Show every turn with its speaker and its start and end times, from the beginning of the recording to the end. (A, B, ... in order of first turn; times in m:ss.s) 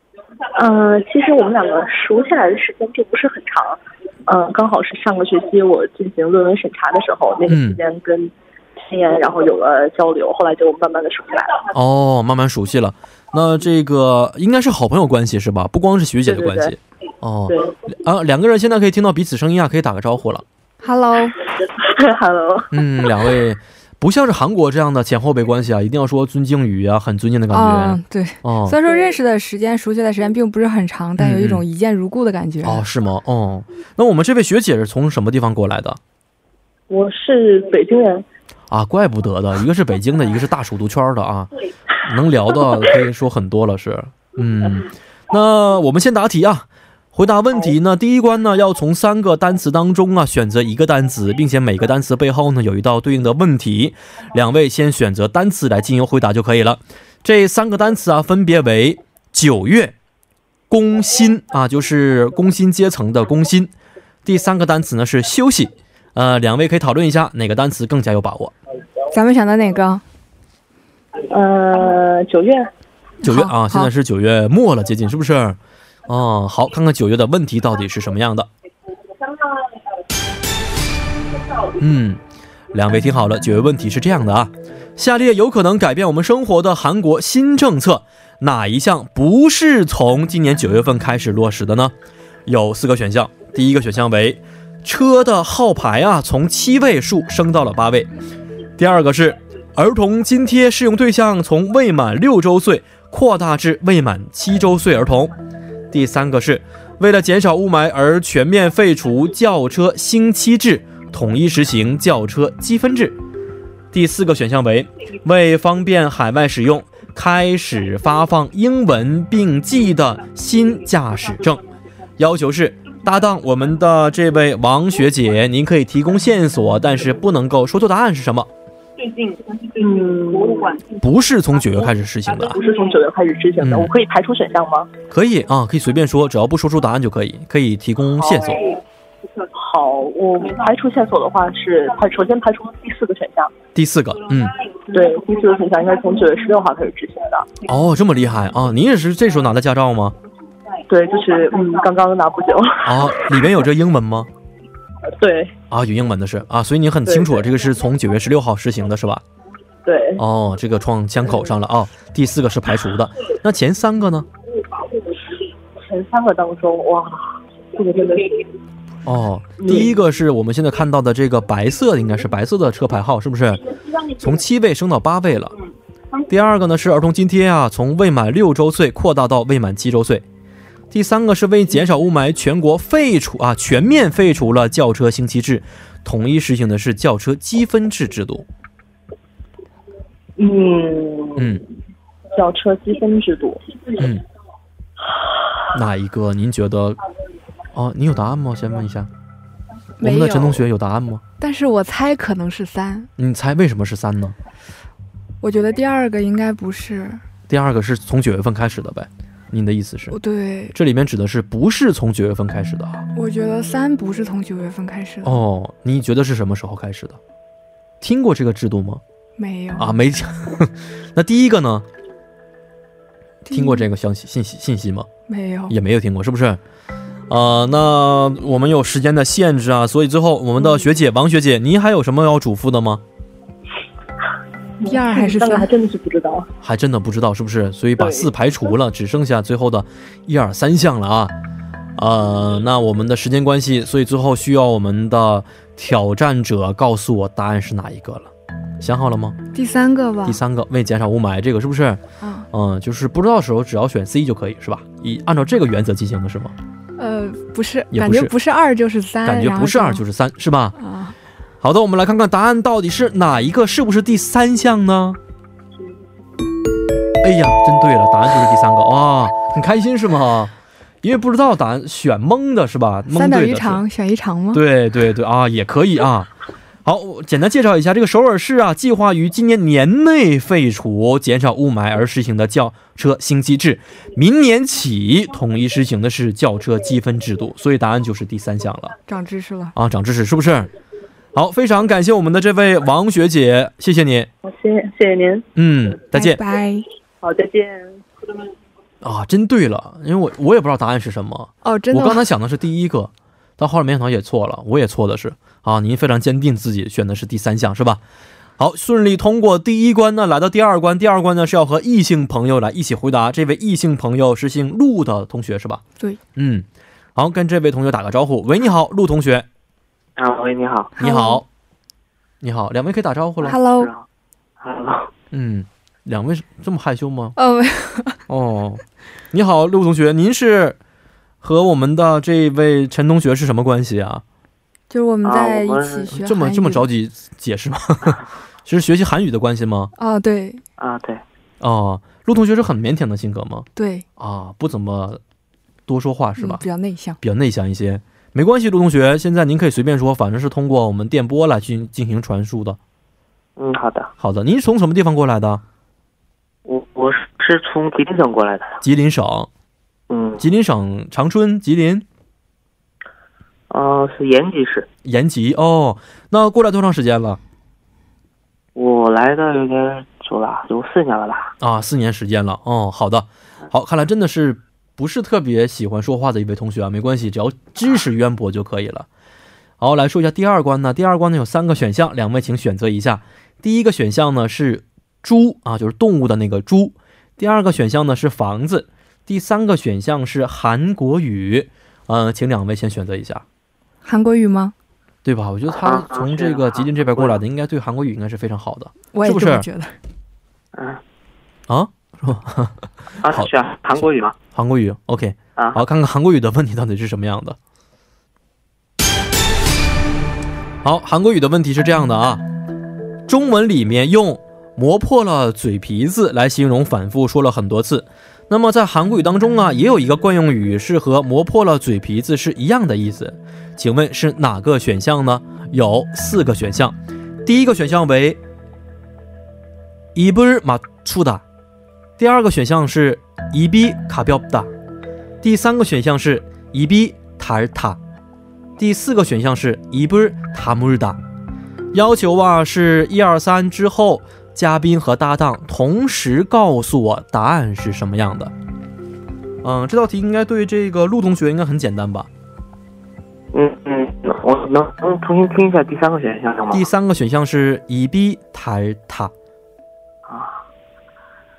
0:00.6-0:11.6 A
0:07.5-0:07.8 B
0:11.7-0:20.4 B
0:16.2-0:16.7 A
0:20.8-0:21.4 C
0:21.6-0:22.7 A
0:22.7-0:28.8 B
0:27.5-0:32.8 C
0:31.2-0:31.6 B
0:32.6-0:36.0 B
0:36.9-0:38.2 A
0:38.7-0:59.9 B
1:00.7-1:03.7 B
1:04.2-1:08.5 B
1:09.1-1:10.0 C
1:11.3-1:12.7 A
1:13.2-1:13.9 C
1:13.2-1:18.5 B
1:21.8-1:22.2 B
1:22.7-1:31.9 B
1:32.4-1:38.1 B
1:38.8-1:45.3 B
1:45.9-1:53.2 B
1:53.9-2:01.6 B
2:02.2-2:08.5 B
2:09.7-2:10.8 A
2:10.9-2:12.6 B
2:12.5-2:14.9 A
2:13.6-2:13.9 B
2:15.1-2:18.6 B
2:18.3-2:18.8 A
2:19.5-2:23.5 A
2:23.8-2:24.5 B
2:24.9-2:27.5 A
2:27.6-2:30.2 B
2:30.9-2:33.3 A
2:32.8-2:34.3 B
2:35.2-2:35.5 A
2:35.7-2:39.2 B
2:37.1-2:37.4 A
2:39.8-2:40.2 A
2:40.2-2:44.3 B
2:45.8-2:48.4 A
2:49.0-2:53.6 B
2:49.6-2:49.9 A
2:54.2-2:55.5 B
2:56.3-3:00.2 B
3:00.9-3:08.4 B
3:10.4-3:11.5 A
3:11.4-3:11.6 B
3:12.3-3:13.8 A
3:14.0-3:14.2 B
3:15.7-3:17.0 B
3:17.7-3:19.1 B
3:20.0-3:20.6 C
3:20.0-3:21.2 B
3:21.4-3:23.1 C
3:23.2-3:24.4 B
3:25.4-3:27.2 C
3:27.5-3:30.2 B
3:30.1-3:30.8 C
3:30.7-3:33.0 B
3:33.2-3:35.4 C
3:35.2-3:37.2 B
3:38.0-3:39.0 B
3:39.4-3:39.9 C
3:39.8-3:41.8 B
3:43.4-3:43.8 C
3:43.5-3:45.1 B
3:45.3-3:45.7 C
3:45.7-3:46.6 B
3:47.3-3:53.0 B
3:54.8-3:55.7 C
3:54.9-3:56.5 A
3:56.6-4:01.3 B
3:58.0-3:58.3 A
4:02.0-4:09.4 B
4:09.5-4:10.4 C
4:10.2-4:12.0 B
4:12.2-4:12.5 C
4:12.5-4:16.5 B
4:17.0-4:20.0 C
4:17.9-4:18.3 B
4:19.2-4:20.8 B
4:20.8-4:21.2 C
4:21.6-4:25.2 B
4:27.2-4:33.8 B
4:33.1-4:34.6 C
4:34.5-4:36.3 B
4:36.8-4:48.9 B
4:49.1-4:49.7 C
4:49.7-4:50.7 B
4:51.3-4:54.3 B
4:54.4-4:55.4 A
4:55.6-4:56.4 B
4:56.1-4:56.8 C
4:57.2-4:58.0 A
4:59.0-5:08.0 B
5:01.6-5:02.2 C
5:08.6-5:15.8 B
5:16.4-5:19.4 B
5:20.2-5:20.9 D
5:21.0-5:21.4 C
5:21.0-5:21.4 B
5:22.4-5:23.6 B
5:23.4-5:24.1 D
5:23.4-5:23.9 C
5:24.6-5:25.1 D
5:25.3-5:27.3 B
5:27.4-5:28.2 C
5:28.3-5:30.8 B
5:31.4-5:34.2 B
5:34.9-5:36.9 C
5:35.2-5:36.1 D
5:36.1-5:39.9 B
5:40.0-5:40.6 C
5:40.8-5:41.2 D
5:41.6-5:45.2 B
5:43.8-5:44.0 C
5:45.9-5:46.6 B
5:46.4-5:47.2 C
5:47.2-5:52.8 B
5:53.6-5:54.1 D
5:54.2-5:55.6 B
5:56.6-5:58.8 D
5:58.8-5:59.5 B
6:00.1-6:00.4 D
6:00.4-6:02.1 B
6:03.7-6:04.9 D
6:05.0-6:07.4 B
6:08.7-6:11.5 D
6:11.6-6:19.1 B
6:19.8-6:33.4 B
6:34.0-6:34.7 C
6:35.2-6:39.7 B
6:35.8-6:37.4 D
6:39.1-6:39.9 C
6:40.7-6:41.0 D
6:41.7-6:47.6 B
6:43.2-6:44.4 D
6:50.8-6:52.4 B
6:53.3-7:08.4 B
7:10.2-7:11.4 B
7:12.2-7:14.7 B
7:15.4-7:18.0 B
7:18.8-7:21.2 B
7:21.9-7:28.5 B
7:29.6-7:32.3 B
7:33.5-7:36.8 D
7:36.7-7:39.3 B
7:40.3-7:40.6 D